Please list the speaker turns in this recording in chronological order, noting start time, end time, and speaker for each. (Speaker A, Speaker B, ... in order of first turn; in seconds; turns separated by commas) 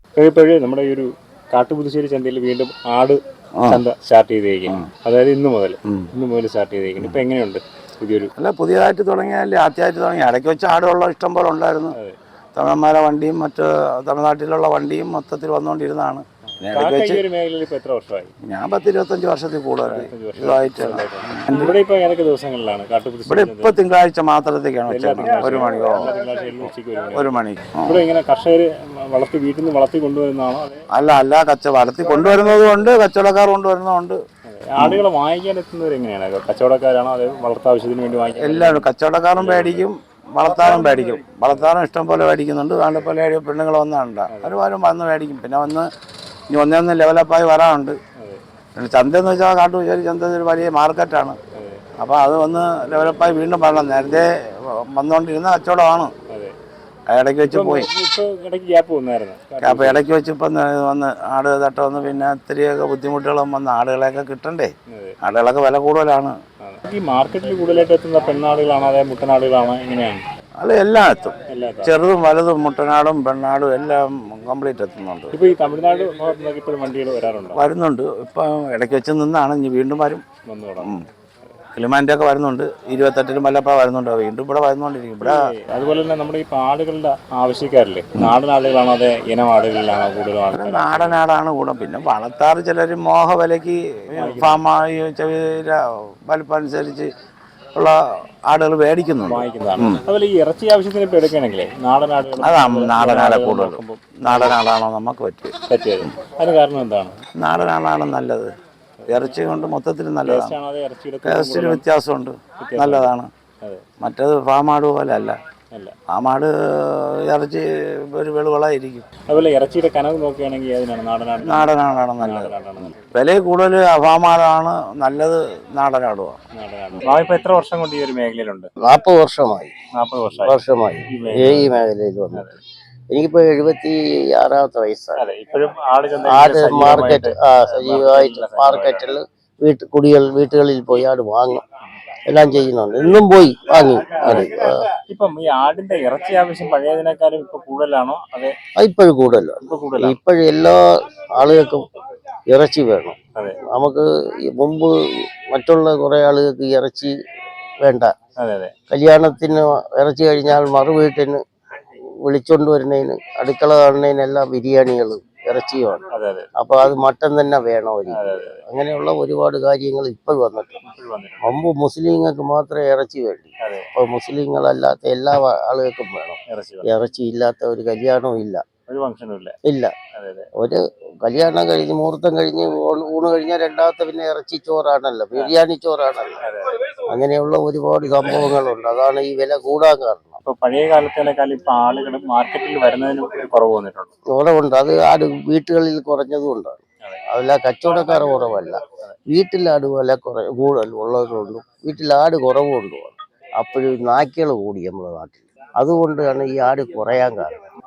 Speaker A: 0.2-8.3, Speaker B: 8.4-11.9, Speaker B: 12.6-17.2, Speaker A: 16.7-18.3, Speaker B: 18.5-21.7, Speaker A: 19.8-23.8, Speaker B: 23.2-26.1, Speaker A: 24.9-30.8, Speaker B: 27.1-28.0, Speaker B: 30.9-34.2, Speaker A: 34.4-39.9, Speaker B: 38.4-45.9, Speaker A: 44.3-44.6, Speaker B: 46.5-48.0, Speaker B: 48.8-51.4, Speaker A: 51.5-51.8, Speaker B: 52.0-56.1, Speaker A: 56.3-56.5, Speaker B: 57.1-57.9, Speaker A: 57.4-60.0, Speaker B: 59.6-64.7, Speaker A: 64.9-65.2, Speaker B: 65.2-66.3, Speaker A: 66.6-70.2, Speaker B: 70.6-75.3, Speaker A: 71.5-72.0, Speaker A: 75.3-77.6, Speaker B: 77.5-80.2, Speaker A: 80.5-80.9, Speaker B: 81.7-85.3, Speaker A: 85.2-91.2, Speaker B: 90.5-97.1, Speaker A: 94.2-94.6, Speaker B: 97.8-100.0, Speaker A: 99.2-104.5, Speaker B: 102.4-105.5, Speaker A: 105.7-107.2, Speaker B: 107.4-108.5, Speaker A: 109.0-109.3, Speaker B: 109.1-110.6, Speaker A: 110.2-111.8, Speaker B: 111.2-113.3, Speaker A: 112.6-113.1, Speaker B: 114.0-115.4, Speaker B: 116.1-119.1, Speaker A: 119.3-123.0, Speaker B: 121.4-126.4, Speaker A: 126.5-128.7, Speaker C: 128.8-129.7, Speaker A: 130.0-130.6, Speaker C: 130.4-132.5, Speaker A: 131.1-131.8, Speaker A: 132.3-132.6, Speaker C: 133.1-135.2, Speaker A: 135.2-139.1, Speaker C: 136.2-141.6, Speaker C: 142.3-144.8, Speaker A: 144.2-144.5, Speaker A: 145.1-148.5, Speaker C: 148.8-150.8, Speaker A: 149.6-150.2, Speaker C: 151.4-151.9, Speaker C: 152.5-153.2, Speaker C: 153.7-154.9, Speaker C: 155.5-157.1, Speaker C: 157.8-158.1, Speaker A: 158.4-158.7, Speaker C: 158.9-161.4, Speaker C: 162.2-166.0, Speaker A: 166.1-166.5, Speaker C: 166.6-170.8, Speaker A: 168.1-168.6, Speaker A: 170.8-171.5, Speaker C: 171.4-178.6, Speaker A: 173.6-173.9, Speaker A: 176.5-176.9, Speaker A: 178.9-179.5, Speaker C: 179.6-179.9, Speaker A: 180.1-180.5, Speaker C: 180.6-186.4, Speaker A: 186.4-186.8, Speaker C: 187.1-190.4, Speaker A: 190.4-194.1, Speaker C: 194.3-207.5